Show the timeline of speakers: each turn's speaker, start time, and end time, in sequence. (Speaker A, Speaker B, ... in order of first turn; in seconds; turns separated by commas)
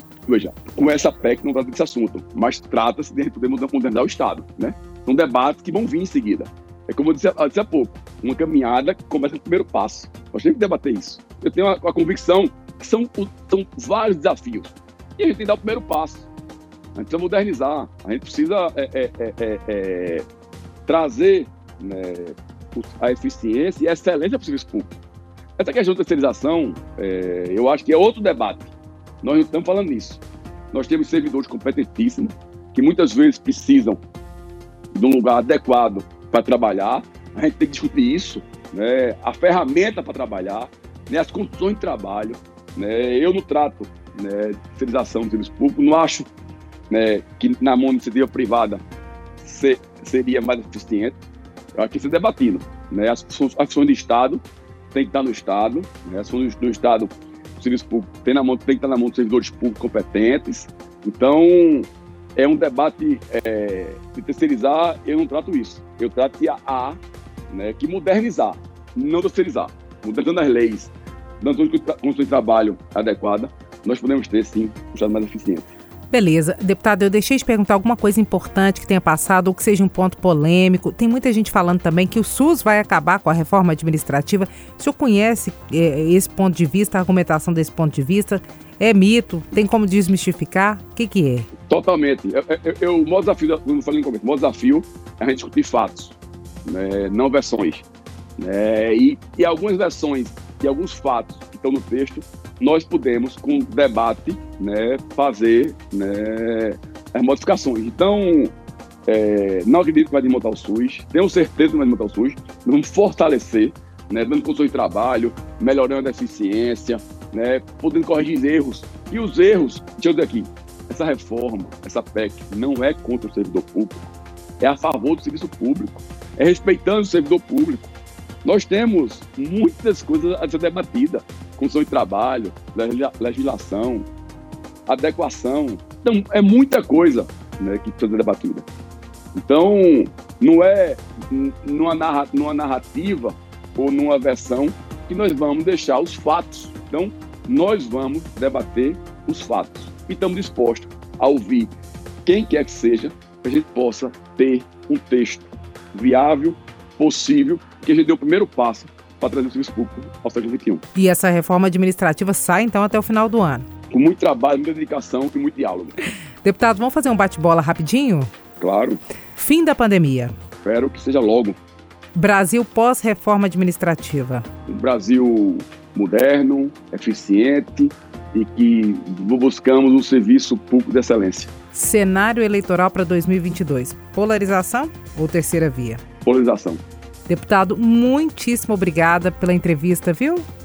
Speaker A: 0.3-16.3, Speaker A: 16.9-20.3, Speaker A: 20.9-24.9, Speaker A: 25.6-34.0, Speaker A: 34.9-46.3, Speaker A: 46.9-48.8, Speaker A: 49.4-51.2, Speaker A: 51.8-75.7, Speaker B: 76.1-91.5, Speaker A: 91.7-97.8, Speaker A: 98.4-108.5, Speaker A: 109.1-127.9, Speaker A: 128.4-134.1, Speaker A: 134.9-138.7, Speaker A: 139.3-151.7, Speaker A: 152.2-160.8, Speaker B: 160.9-163.7, Speaker A: 163.9-165.9, Speaker B: 166.4-168.3, Speaker A: 168.6-169.0, Speaker B: 169.4-170.3, Speaker A: 170.6-171.6, Speaker B: 172.2-174.5, Speaker A: 174.7-181.5, Speaker B: 181.7-186.0, Speaker A: 186.2-186.8, Speaker B: 187.3-190.5